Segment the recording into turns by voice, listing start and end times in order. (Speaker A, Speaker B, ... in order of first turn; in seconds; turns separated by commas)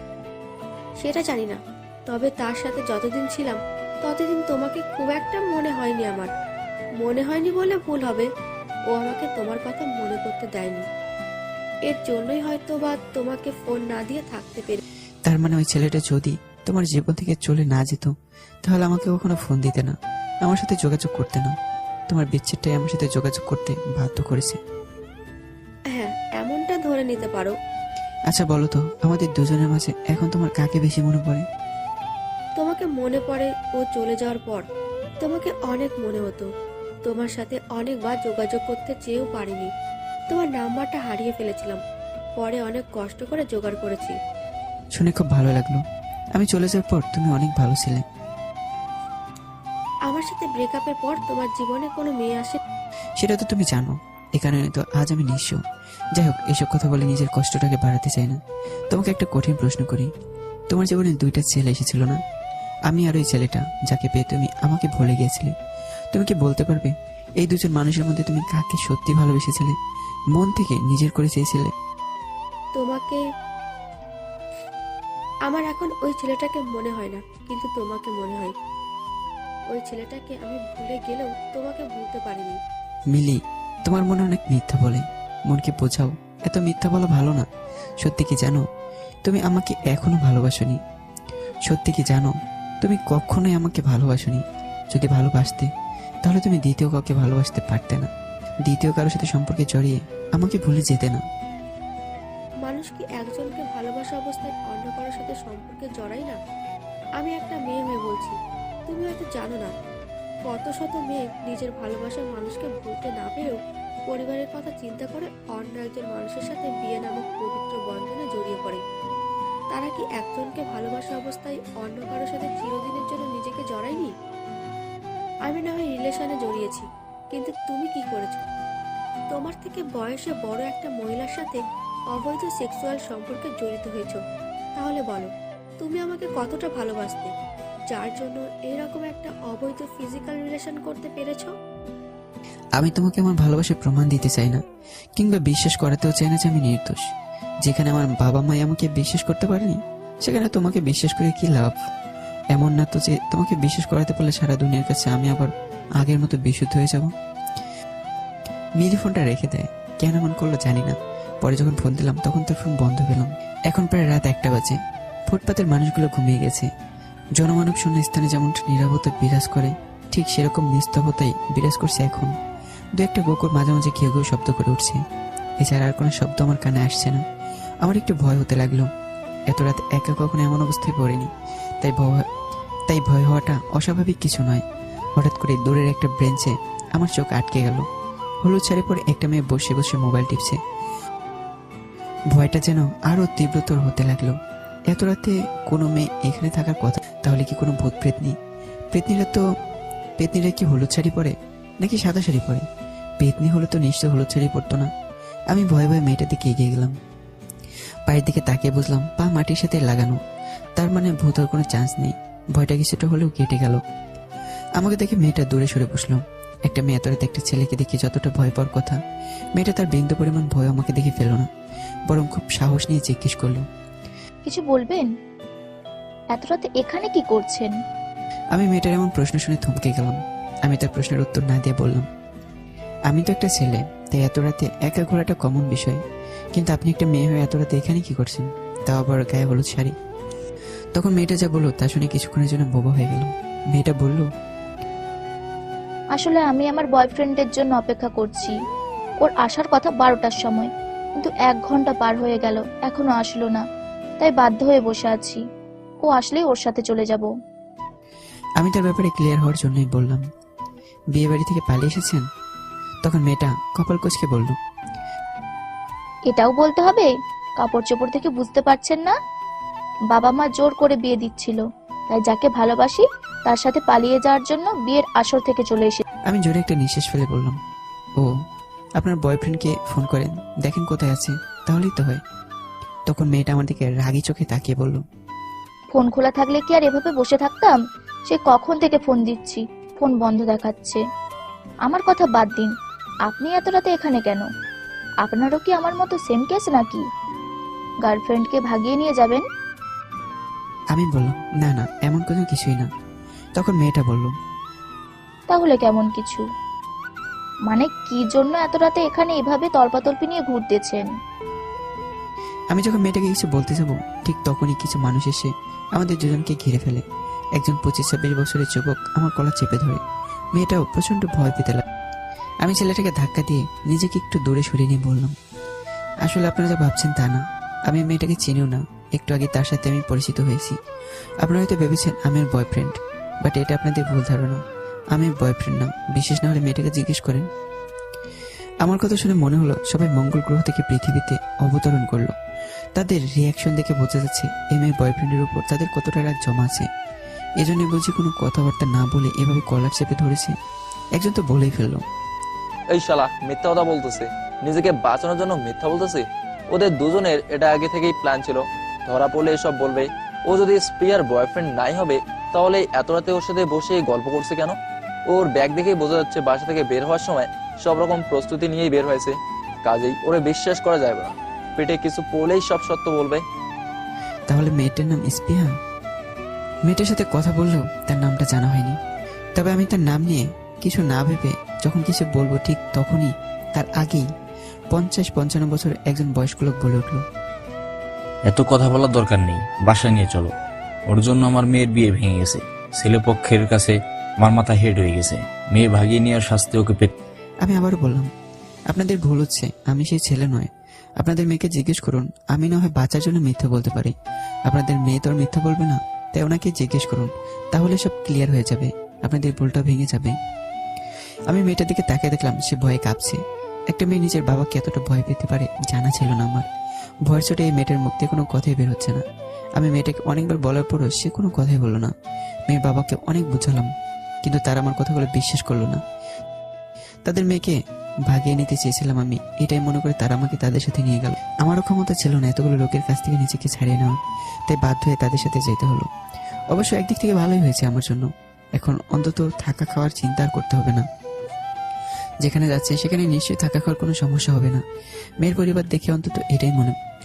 Speaker A: 1.0-6.3, Speaker A: 7.0-8.3, Speaker A: 8.9-10.9, Speaker A: 11.9-14.8, Speaker B: 15.3-18.1, Speaker B: 18.7-21.5, Speaker B: 22.1-24.6, Speaker A: 25.9-27.6, Speaker B: 28.3-31.5, Speaker A: 32.6-34.7, Speaker A: 35.2-36.5, Speaker A: 37.0-39.7, Speaker A: 40.3-41.8, Speaker A: 42.4-44.2, Speaker B: 45.0-45.8, Speaker B: 46.4-48.0, Speaker A: 50.1-52.6, Speaker B: 53.2-55.6, Speaker B: 56.2-58.4, Speaker B: 58.9-60.1, Speaker B: 60.7-62.2, Speaker B: 62.9-65.5, Speaker B: 66.1-69.8, Speaker B: 70.3-71.7, Speaker A: 72.8-73.2, Speaker A: 75.5-78.5, Speaker A: 79.7-82.6, Speaker B: 83.1-87.5, Speaker B: 88.0-88.6, Speaker B: 89.2-90.8, Speaker B: 91.7-95.7, Speaker B: 96.2-98.1, Speaker B: 98.7-101.2, Speaker A: 102.6-106.4, Speaker A: 107.2-109.7, Speaker A: 110.5-118.8, Speaker A: 119.7-124.1, Speaker A: 125.5-128.4, Speaker A: 129.3-134.2, Speaker A: 134.8-137.3, Speaker A: 137.9-141.5, Speaker B: 142.8-144.6, Speaker B: 145.2-147.0, Speaker B: 147.6-151.8, Speaker B: 152.5-157.1, Speaker B: 158.8-164.8, Speaker B: 165.3-166.7, Speaker B: 167.4-172.3, Speaker B: 173.0-175.0, Speaker B: 175.6-177.2, Speaker B: 177.8-178.9, Speaker B: 179.5-182.2, Speaker B: 182.9-184.6, Speaker B: 185.2-187.9, Speaker B: 188.4-190.6, Speaker B: 192.3-194.4, Speaker B: 194.9-198.3, Speaker B: 198.9-199.4, Speaker B: 200.2-202.7, Speaker B: 203.2-204.9, Speaker B: 205.5-206.9, Speaker B: 208.1-210.2, Speaker B: 210.8-213.8, Speaker B: 214.8-219.0, Speaker B: 219.6-221.5, Speaker B: 222.1-223.7, Speaker C: 224.4-225.1, Speaker C: 226.3-227.7, Speaker B: 228.5-232.1, Speaker B: 233.1-236.0, Speaker B: 236.6-239.9, Speaker B: 240.9-244.3, Speaker C: 246.1-248.5, Speaker C: 249.2-253.6, Speaker C: 254.2-255.4, Speaker C: 256.0-257.3, Speaker B: 258.6-260.2, Speaker B: 261.1-262.2, Speaker B: 263.0-264.6, Speaker C: 266.3-269.1, Speaker C: 270.1-276.1, Speaker B: 276.3-277.6, Speaker B: 279.0-282.2, Speaker B: 283.1-285.0, Speaker C: 285.9-291.0, Speaker C: 291.9-292.7, Speaker C: 293.2-294.5, Speaker C: 295.2-297.0, Speaker C: 298.0-299.4, Speaker B: 300.9-302.9, Speaker B: 303.6-304.3, Speaker C: 305.5-306.4, Speaker C: 307.7-311.1, Speaker B: 312.7-317.0, Speaker B: 317.6-320.0, Speaker B: 320.6-321.8, Speaker B: 322.6-325.4, Speaker B: 326.2-330.8, Speaker B: 331.4-334.6, Speaker B: 335.1-337.5, Speaker B: 338.8-342.3, Speaker B: 343.0-346.9, Speaker B: 347.6-350.5, Speaker B: 351.2-352.0, Speaker D: 352.9-364.8, Speaker D: 365.3-373.4, Speaker B: 374.5-375.7, Speaker B: 376.9-379.0, Speaker B: 379.6-384.3, Speaker B: 384.9-387.2, Speaker E: 388.5-390.5, Speaker E: 391.1-397.1, Speaker B: 397.6-398.3, Speaker B: 398.9-404.1, Speaker B: 404.7-410.4, Speaker B: 411.5-416.7, Speaker B: 417.3-419.2, Speaker B: 419.8-422.1, Speaker B: 422.7-423.9, Speaker B: 424.4-426.0, Speaker B: 427.3-436.1, Speaker B: 436.7-441.1, Speaker B: 442.4-444.8, Speaker B: 445.4-447.0